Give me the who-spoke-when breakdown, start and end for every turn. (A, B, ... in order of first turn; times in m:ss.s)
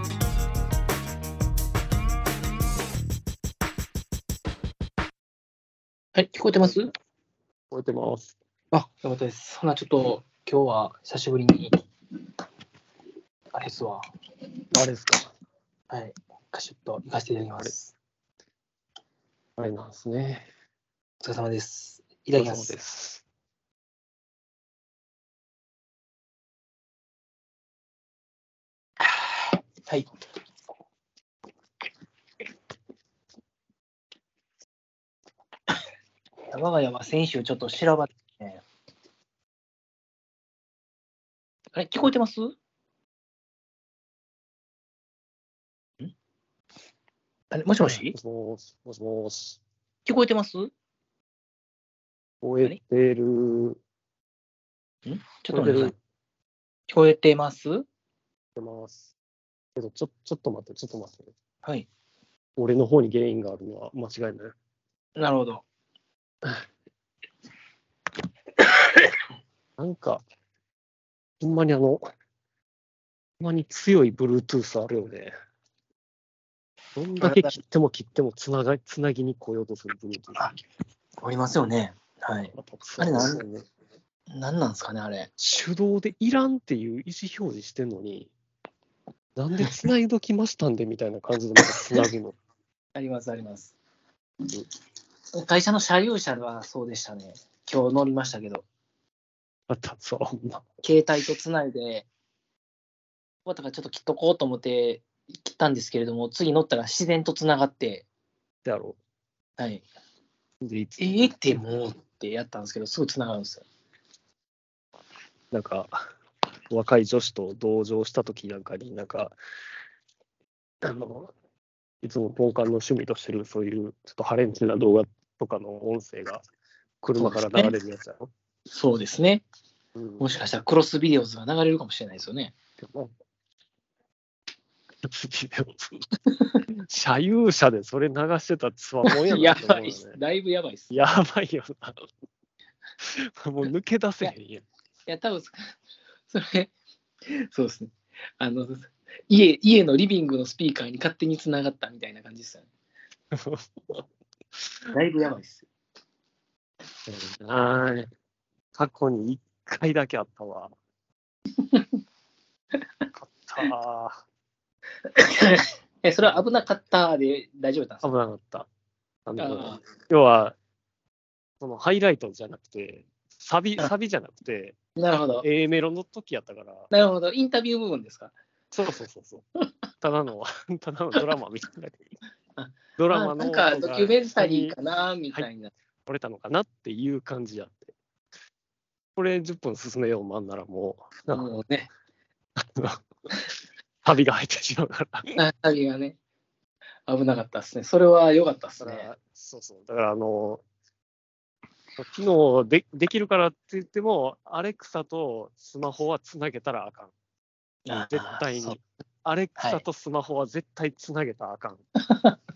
0:06.2-0:06.9 A
0:07.7-0:08.3 B
0:08.7-0:11.8 A
0:13.5-0:14.0 A
0:14.7-0:15.3 B
0:15.9-0:17.9 A
0:19.6-0:20.5 B
0:21.2-0:22.8 A
0:22.4-0:23.2 B
0:36.5-0:38.6 A
0:41.8-0:42.6 A
0:47.5-0:48.1 A
0:47.8-0:49.6 B
0:50.1-0:50.7 A
0:52.4-0:53.8 B
0:55.1-0:55.9 A
0:55.5-0:55.9 B
0:56.9-0:57.9 A
0:58.6-0:59.1 B
0:59.8-1:01.3 B
1:02.6-1:04.5 B
1:05.2-1:05.6 A
1:09.8-1:10.2 B
1:11.4-1:12.0 B
1:13.4-1:15.3 B
1:17.0-1:20.4 B
1:17.2-1:17.5 A
1:21.2-1:23.4 A
1:22.5-1:23.7 B
1:24.3-1:25.3 A
1:25.4-1:28.3 B
1:29.4-1:32.4 B
1:31.8-1:32.1 A
1:33.0-1:33.8 A
1:35.4-1:38.6 A
1:39.7-1:40.7 B
1:40.8-1:42.1 A
1:43.4-1:48.1 A
1:48.6-1:49.0 B
1:49.6-1:49.8 A
1:50.6-1:51.3 B
1:51.0-1:53.6 A
1:55.5-1:56.0 B
1:56.7-1:59.4 B
2:00.8-2:01.3 B
2:02.0-2:06.4 B
2:07.0-2:08.3 B
2:07.2-2:07.7 A
2:08.7-2:09.4 A
2:10.0-2:10.2 B
2:10.2-2:12.6 A
2:12.8-2:13.1 B
2:15.0-2:16.1 B
2:16.8-2:20.2 B
2:19.1-2:21.1 A
2:20.9-2:22.0 B
2:23.0-2:24.6 B
2:25.1-2:25.6 A
2:26.3-2:26.7 A
2:27.3-2:32.7 A
2:33.3-2:34.0 B
2:34.9-2:35.7 A
2:37.1-2:38.1 B
2:38.8-2:40.7 B
2:41.6-2:41.9 A
2:43.1-2:44.2 B
2:45.1-2:48.1 A
2:48.0-2:48.7 B
2:49.3-2:50.6 B
2:49.4-2:49.8 A
2:51.6-2:54.8 B
2:55.0-2:55.5 A
2:55.4-2:56.9 B
2:56.9-2:58.3 A
2:58.7-2:59.4 B
3:00.0-3:02.0 B
3:02.6-3:05.7 A
3:03.0-3:04.8 B
3:06.1-3:07.9 B
3:09.2-3:11.5 B
3:11.3-3:11.9 A
3:12.6-3:13.0 B
3:14.0-3:15.3 B
3:15.4-3:16.2 A
3:17.1-3:19.1 A
3:18.8-3:20.6 B
3:22.0-3:27.1 B
3:27.9-3:28.8 A
3:27.9-3:31.8 B
3:29.6-3:29.8 A
3:32.0-3:32.4 A